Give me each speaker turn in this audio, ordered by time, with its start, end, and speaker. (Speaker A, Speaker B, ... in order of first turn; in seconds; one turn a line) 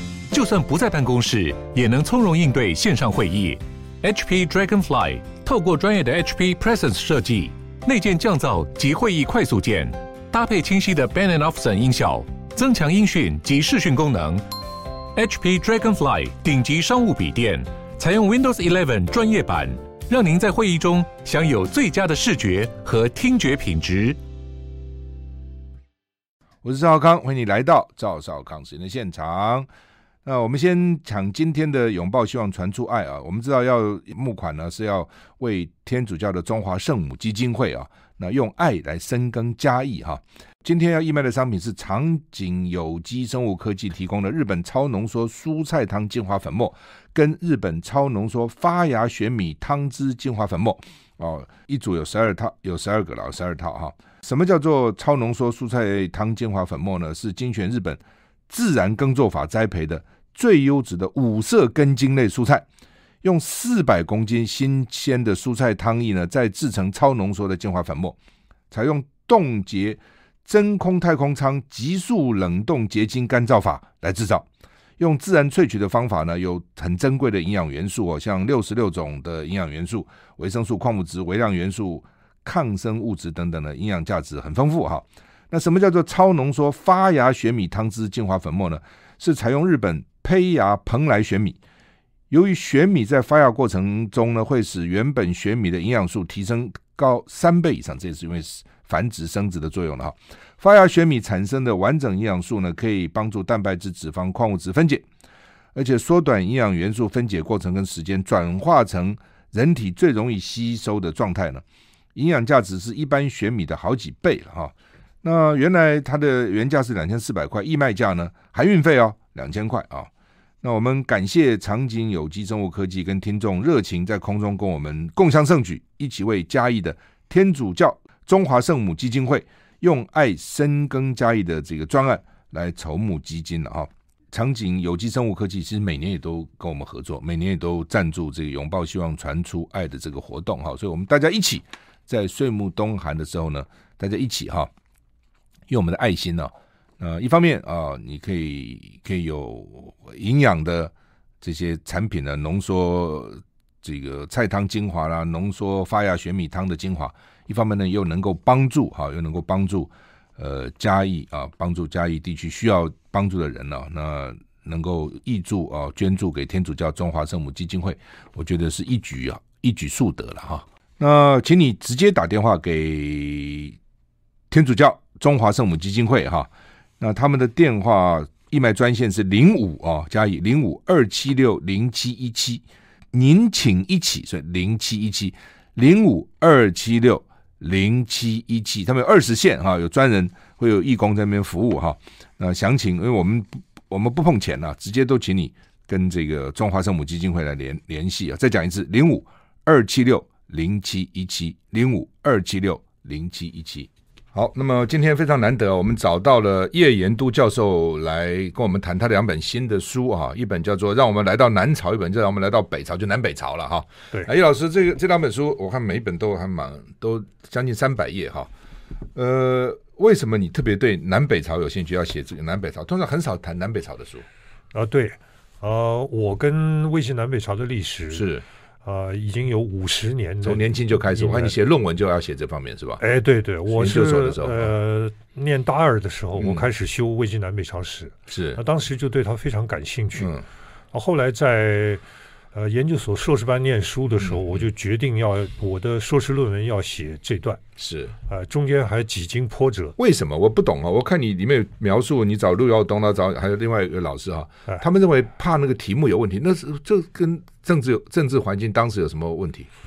Speaker A: 0.3-14.4
Speaker A: 15.2-24.2
Speaker B: 26.6-29.7
Speaker B: 30.2-62.7
Speaker B: 63.2-68.2
Speaker B: 68.7-74.5
Speaker B: 75.0-91.6
Speaker B: 92.3-105.1
Speaker B: 105.8-111.6
Speaker B: 112.2-120.1
Speaker B: 120.6-144.7
Speaker B: 145.7-173.8
Speaker B: 174.5-218.5
Speaker B: 219.2-224.3
Speaker C: 224.7-228.3
Speaker B: 228.1-228.4
Speaker C: 228.8-231.6
Speaker B: 230.4-233.0
Speaker C: 233.0-240.3
Speaker B: 233.7-234.7
Speaker B: 236.4-236.7
Speaker B: 238.3-238.6
Speaker B: 240.2-240.4
Speaker C: 240.9-242.0
Speaker C: 242.5-247.6
Speaker B: 244.2-244.7
Speaker B: 247.8-248.1
Speaker C: 248.3-250.0
Speaker B: 250.0-259.7